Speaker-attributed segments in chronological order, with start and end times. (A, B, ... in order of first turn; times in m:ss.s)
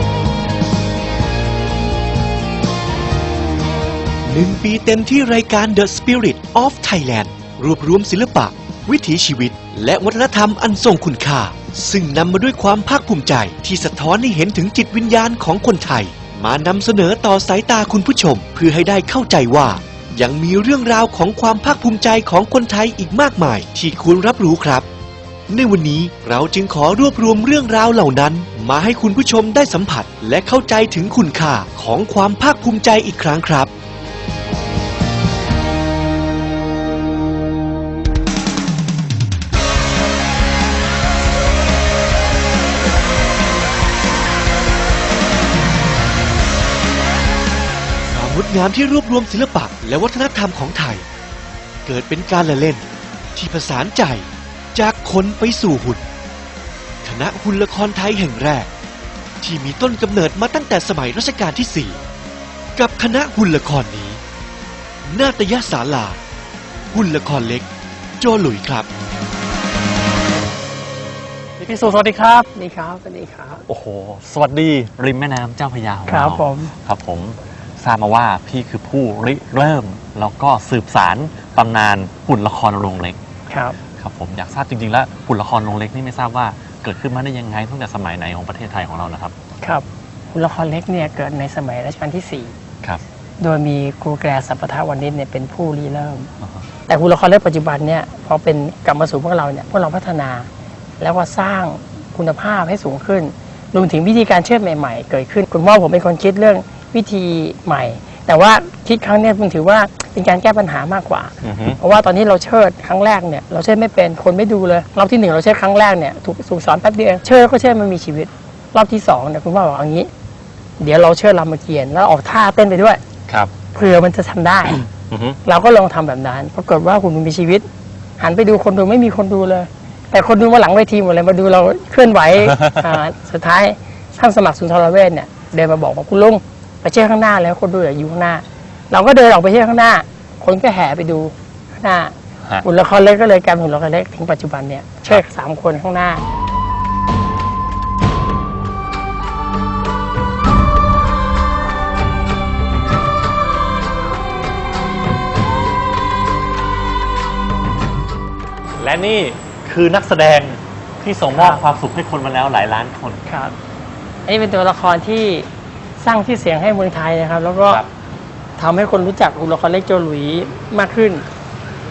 0:04.2-0:24.8 A
0:25.5-0:33.7 A
0:48.1-0:51.0 A
0:51.8-0:56.0 A
0:57.0-0:58.7 A
0:59.4-1:02.0 A
1:02.8-1:04.2 A
1:05.1-1:06.2 A
1:06.9-1:07.7 A
1:08.2-1:08.9 A
1:11.6-1:12.5 B
1:12.5-1:13.6 C
1:13.7-1:23.2 B
1:16.1-1:16.7 C
1:23.5-1:23.8 C
1:24.0-1:29.3 B
1:29.6-1:32.5 C
1:33.4-1:36.3 C
1:36.9-1:40.5 C
1:41.0-2:00.1 C
1:51.4-1:51.8 B
2:00.8-2:03.0 C
2:03.7-2:04.8 C
2:05.1-2:05.4 B
2:05.4-2:07.7 C
2:08.2-2:26.2 C
2:12.4-2:12.7 B
2:38.8-2:43.2 B
2:41.3-2:41.6 C
2:43.3-2:43.5 C
2:44.2-2:45.5 C
2:46.0-2:47.8 C
2:48.6-2:51.2 C